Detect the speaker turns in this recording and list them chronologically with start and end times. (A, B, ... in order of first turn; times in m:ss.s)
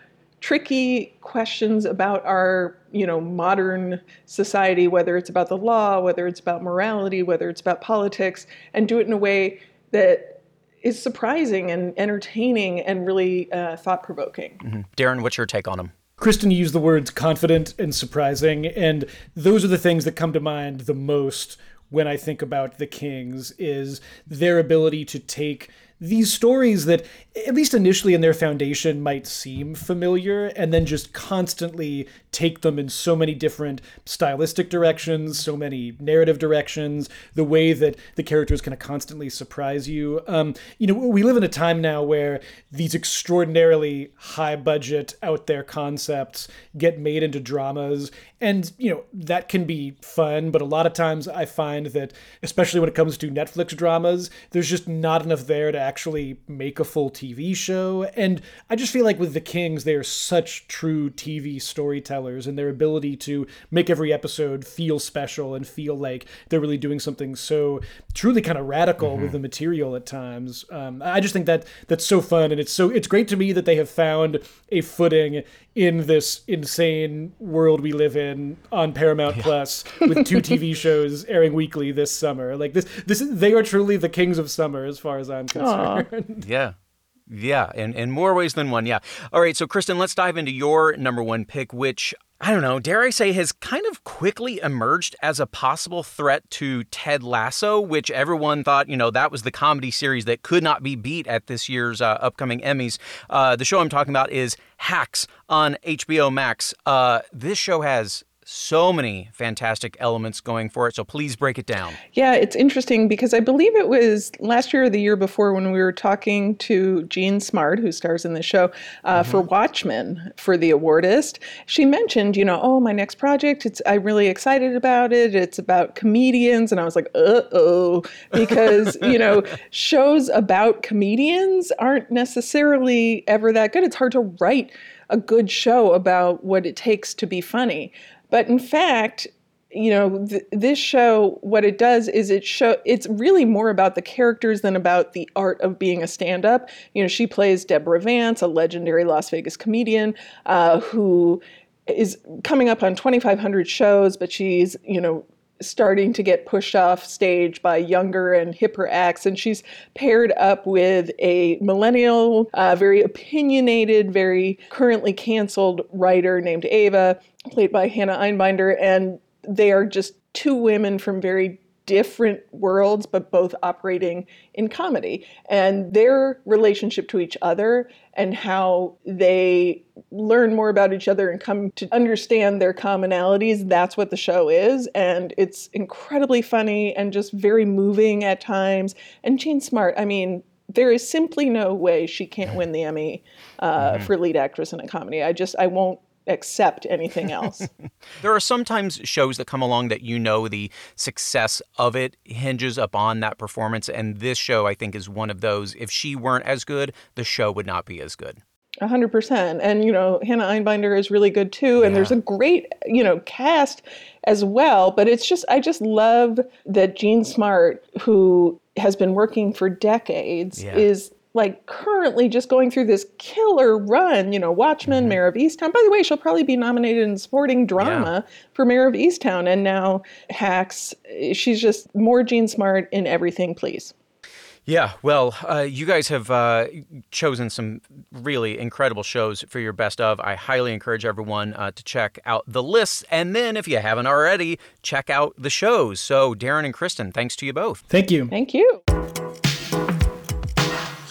0:00.4-0:14.6 A
0:14.6-0:15.9 B
0:16.2-1:26.4 C
1:09.0-1:09.4 B
1:25.6-1:26.0 A
1:26.4-1:26.7 B
1:27.3-1:52.0 B
1:52.2-3:17.7 A
1:59.2-1:59.4 B
3:13.8-3:14.1 B
3:18.2-3:28.4 B
3:28.8-3:53.9 A
3:31.8-3:32.2 B
3:40.6-3:40.8 B
3:44.9-3:45.2 B
3:47.8-3:48.1 B
3:54.6-4:07.8 B
4:07.9-4:08.3 C
4:08.3-4:08.8 A